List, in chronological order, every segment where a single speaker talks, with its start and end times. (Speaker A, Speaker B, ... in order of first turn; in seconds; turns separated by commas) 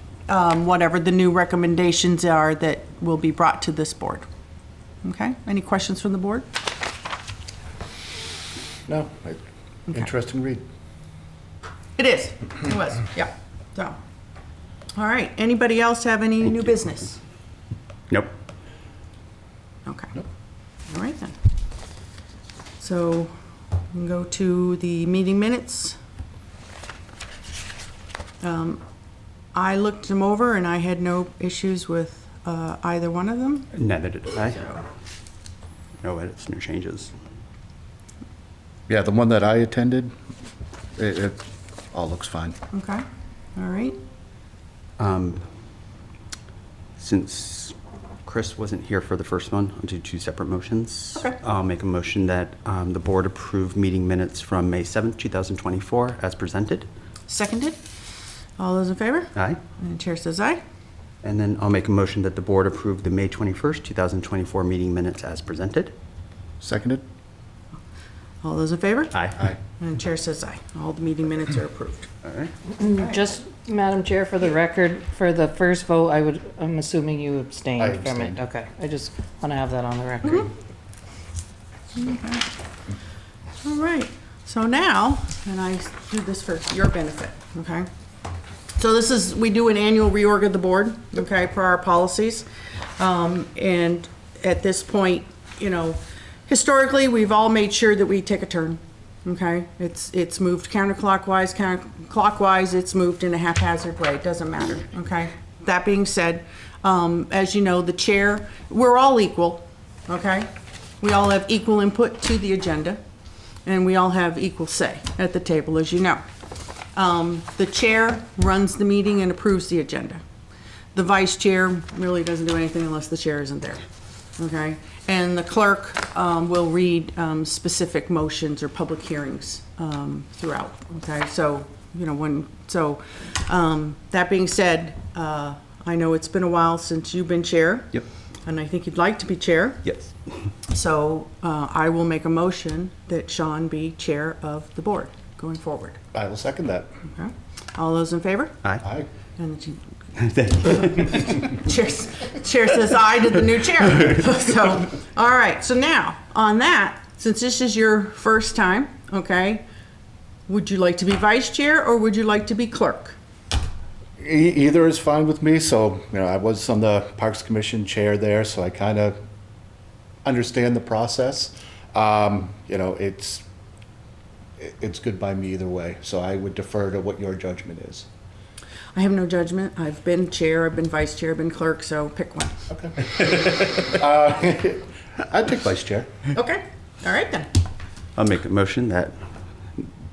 Speaker A: 0.3-4.3, Speaker A: 5.0-6.5, Speaker B: 8.9-10.6, Speaker A: 12.0-14.0, Speaker A: 14.9-17.2, Speaker A: 19.9-20.1, Speaker A: 20.9-21.4, Speaker A: 22.8-23.3, Speaker A: 23.9-26.0, Speaker A: 28.4-28.8, Speaker A: 29.5-33.7, Speaker C: 33.8-34.7, Speaker C: 36.0-37.1, Speaker B: 38.9-40.1, Speaker B: 41.0-41.4, Speaker B: 41.9-42.5, Speaker A: 42.7-43.0, Speaker A: 43.5-44.0, Speaker C: 45.0-45.4, Speaker C: 47.0-56.9, Speaker A: 57.3-57.8, Speaker A: 58.6-60.6, Speaker C: 59.4-59.6, Speaker C: 61.2-65.9, Speaker B: 66.6-67.0, Speaker A: 68.4-69.2, Speaker C: 69.1-69.4, Speaker A: 69.8-72.1, Speaker C: 72.2-72.5, Speaker D: 72.8-80.5, Speaker B: 77.8-78.4, Speaker A: 82.0-82.5, Speaker A: 83.6-87.9, Speaker A: 88.8-92.5, Speaker A: 93.0-110.5, Speaker A: 111.0-113.0, Speaker A: 113.7-116.2, Speaker A: 117.0-120.2, Speaker A: 120.9-123.8, Speaker A: 124.4-139.8, Speaker C: 139.8-140.1, Speaker A: 140.7-146.0, Speaker B: 146.1-146.9, Speaker A: 147.1-148.6, Speaker B: 148.8-149.1, Speaker A: 149.4-149.8, Speaker C: 150.2-151.5, Speaker A: 150.7-159.6, Speaker A: 160.5-163.2, Speaker B: 164.2-169.2, Speaker B: 170.2-173.4, Speaker B: 174.6-178.1, Speaker A: 178.9-182.5, Speaker B: 182.7-186.1, Speaker A: 186.3-187.5, Speaker C: 188.2-189.2